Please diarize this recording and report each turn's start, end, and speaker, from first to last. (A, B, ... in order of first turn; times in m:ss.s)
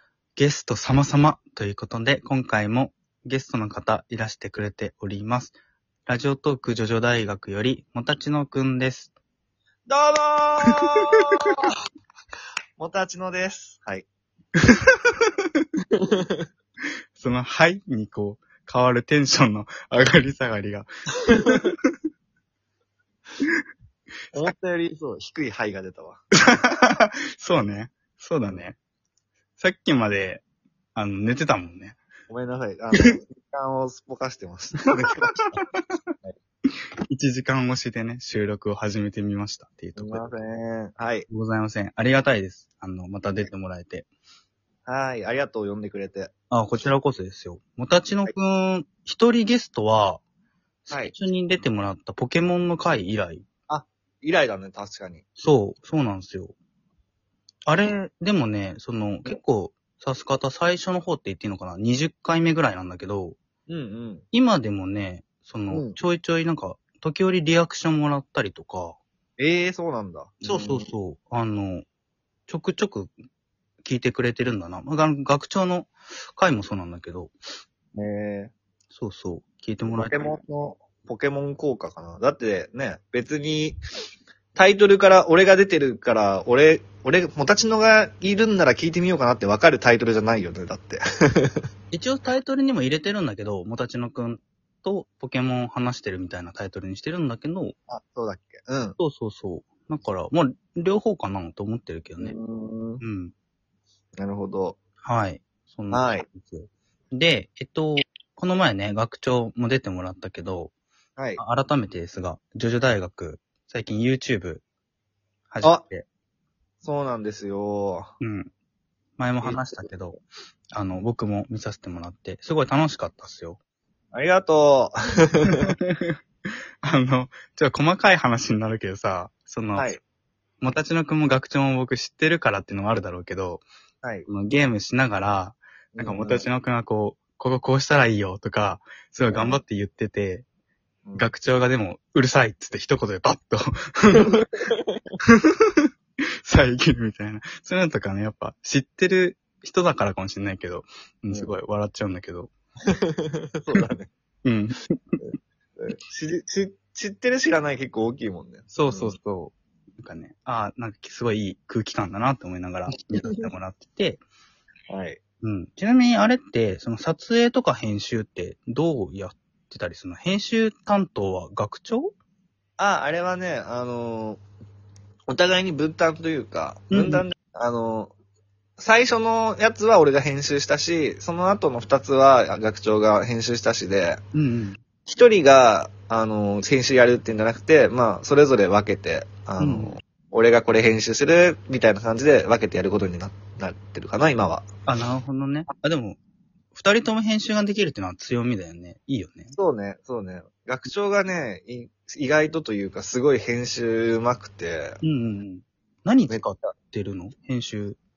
0:00.4-0:09.1 A
0:09.9-0:11.7 B
0:10.7-0:11.2 A
0:12.8-0:14.1 B
0:14.6-0:15.3 A
0:16.0-0:16.5 B
0:17.2-0:21.8 A
0:21.3-0:21.7 B
0:24.3-0:26.2 B
0:26.4-0:28.8 A
0:29.6-0:30.4 A
0:31.0-0:32.0 A
0:32.3-0:35.6 B
0:35.5-0:35.8 A
0:36.7-0:40.3 A
0:40.0-0:41.3 B
0:41.3-0:44.1 A
0:44.9-0:46.3 B
0:46.5-0:50.2 A
0:50.9-0:53.4 A
0:53.7-0:55.2 B
0:55.4-0:56.5 A
0:57.7-1:03.4 A
1:03.7-1:04.2 B
1:04.3-1:09.0 A
1:05.7-1:06.0 B
1:09.4-1:10.9 B
1:10.4-1:11.8 A
1:12.5-1:13.1 A
1:13.8-1:17.4 A
1:18.0-1:18.5 B
1:18.9-1:20.4 A
1:19.9-1:23.8 B
1:24.6-1:31.7 B
1:31.9-1:37.8 A
1:37.9-1:39.0 B
1:39.0-1:42.4 A
1:42.2-1:43.0 B
1:43.0-1:43.3 A
1:44.2-1:44.8 B
1:45.0-1:50.7 A
1:45.9-1:46.3 B
1:51.2-1:51.4 B
1:51.4-1:54.6 A
1:55.5-1:56.0 A
1:56.8-1:58.1 B
1:58.2-1:58.5 A
1:59.2-2:00.2 A
1:59.4-1:59.8 B
2:00.7-2:03.6 A
2:04.1-2:05.7 B
2:05.5-2:06.2 A
2:06.8-2:09.9 A
2:10.6-2:13.6 A
2:14.3-2:20.4 A
2:16.0-2:16.5 B
2:19.3-2:19.6 B
2:21.0-2:21.3 B
2:21.2-2:24.5 A
2:24.1-2:25.1 B
2:25.2-2:25.9 A
2:26.4-2:32.5 A
2:32.8-2:34.1 B
2:34.4-2:35.2 A
2:35.8-2:39.2 B
2:38.7-2:44.2 A
2:42.9-2:43.5 B
2:44.9-2:45.2 B
2:45.4-2:52.1 A
2:52.8-2:54.4 B
2:55.3-2:58.1 B
2:56.9-2:57.2 A
2:58.8-3:04.2 B
3:04.3-3:04.8 A
3:05.1-3:14.7 B
3:09.6-3:10.0 A
3:14.9-3:16.2 A
3:16.7-3:19.6 A
3:19.6-3:25.0 B
3:25.0-3:28.0 A
3:26.3-3:26.7 B